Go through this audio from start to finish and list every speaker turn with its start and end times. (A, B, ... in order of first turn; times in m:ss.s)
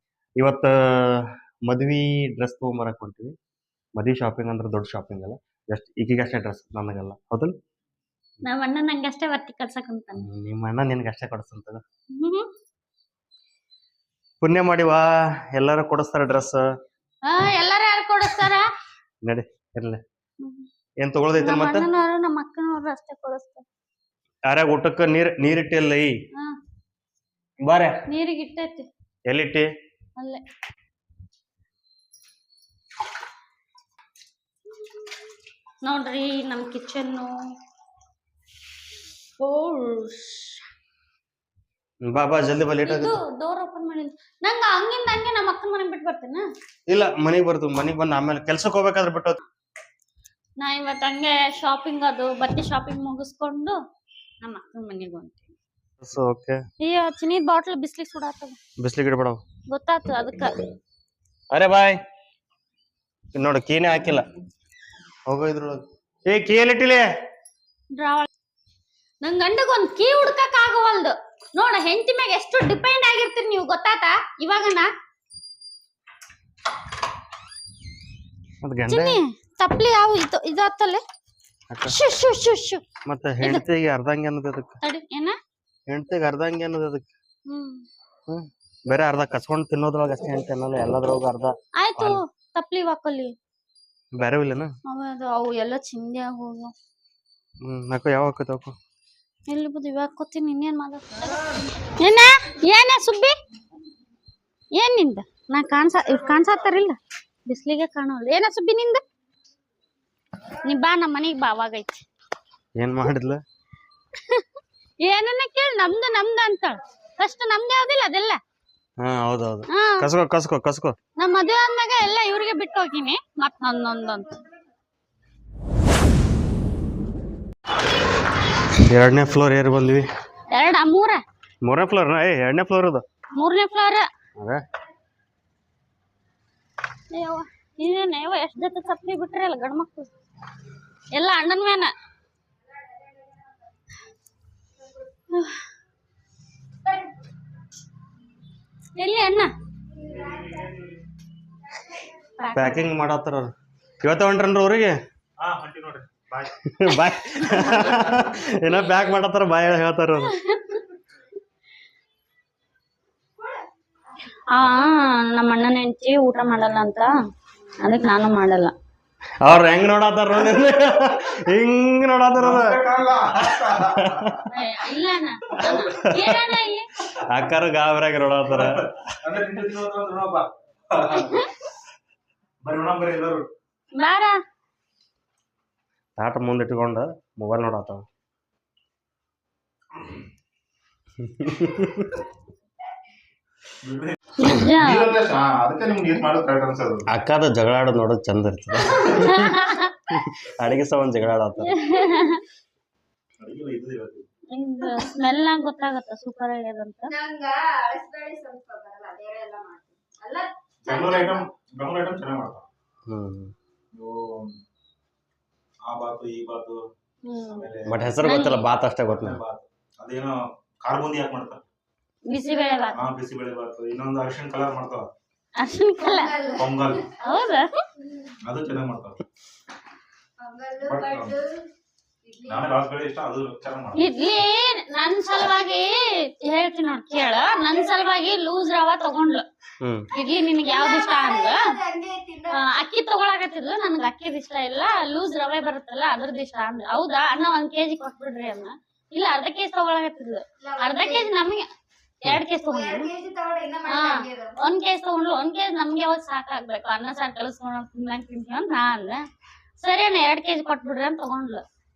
0:00.4-0:03.3 A
0:04.0-0:07.6 A
0:08.4-0:10.2 B
0:10.2-0:11.8 A
0:12.2-0:12.5 B
0:14.4-0:16.6 A
0:17.2-0:18.6 B
0:19.2-0:20.0 A
0:20.4-0:20.7 B
0:21.0-0:21.9 A
0:21.4-0:23.6 B
0:24.5-0:26.1 A
0:27.7-0:28.0 A
0:28.1-0:28.9 B
0:29.3-0:29.7 A
0:30.2-0:30.4 B
0:35.8-0:37.3 B
0:39.4-0:40.6 B
0:42.1-0:43.1 A
0:42.8-0:46.5 B
0:46.9-0:49.4 A
0:50.6-0:53.8 B
0:54.4-0:55.5 B
0:56.0-0:56.6 A
0:56.8-0:58.6 B
0:58.8-0:59.4 A
0:59.7-1:00.6 B
1:01.5-1:02.0 A
1:03.3-1:04.2 A
1:05.3-1:07.1 A
1:08.0-1:08.3 B
1:09.2-1:14.9 B
1:18.6-1:19.2 A
1:18.9-1:21.0 B
1:21.9-1:22.8 B
1:23.0-1:24.8 A
1:24.8-1:25.4 B
1:25.9-1:27.1 A
1:27.5-1:27.9 B
1:28.3-1:32.2 A
1:31.8-1:33.4 B
1:34.2-1:34.7 A
1:34.9-1:36.7 B
1:37.6-1:38.8 A
1:39.5-1:41.4 B
1:42.0-1:43.4 B
1:44.8-1:49.0 B
1:50.6-1:52.0 B
1:52.8-1:53.4 A
1:55.0-1:58.4 B
1:59.0-2:01.0 A
1:59.7-2:00.1 B
2:01.2-2:04.4 B
2:08.9-2:10.1 A
2:10.5-2:11.2 B
2:11.6-2:13.0 A
2:13.4-2:14.1 B
2:17.1-2:20.1 B
2:21.1-2:21.9 B
2:22.7-2:23.6 C
2:25.3-2:25.6 B
2:29.0-2:29.5 B
2:30.0-2:30.7 C
2:30.1-2:31.0 D
2:31.7-2:32.2 C
2:32.4-2:32.9 B
2:32.5-2:35.0 A
2:35.4-2:36.5 D
2:36.4-2:40.4 A
2:40.5-2:40.8 B
2:44.5-2:47.1 B
2:47.8-2:48.7 B
2:49.4-2:52.8 A
2:52.4-2:54.4 D
2:53.4-2:54.4 A
2:54.5-2:56.9 B
2:55.7-2:56.3 A
2:57.1-2:58.9 A
2:58.5-3:01.4 D
3:01.1-3:01.5 B
3:02.6-3:03.5 D
3:03.9-3:04.4 B
3:06.2-3:08.0 A
3:11.2-3:12.2 A
3:13.8-3:17.1 D
3:14.4-3:15.1 B
3:17.1-3:21.8 A
3:19.1-3:19.9 B
3:21.7-3:22.4 B
3:23.4-3:24.2 D
3:24.5-3:27.1 B
3:27.1-3:31.5 C
3:30.8-3:32.6 D
3:33.1-3:33.5 A
3:33.9-3:34.6 D
3:35.8-3:36.8 D
3:37.2-3:38.7 B
3:37.5-3:38.1 D
3:37.9-3:39.4 A
3:39.0-3:41.6 D
3:42.3-3:43.1 B
3:42.9-3:45.1 D
3:45.6-3:46.4 B
3:46.0-3:47.2 C
3:46.6-3:47.1 D
3:47.2-3:47.7 B
3:48.0-3:48.3 C
3:48.4-3:49.2 D
3:50.4-3:51.6 C
3:50.8-3:51.4 D
3:52.2-3:52.7 C
3:52.5-3:54.0 D
3:53.9-3:59.4 B
3:59.8-4:00.1 A
4:00.1-4:01.7 B
4:00.6-4:02.8 C
4:02.5-4:11.7 B
4:10.6-4:11.4 C
4:12.2-4:13.1 B
4:12.6-4:14.6 C
4:13.9-4:19.2 B
4:19.8-4:21.6 B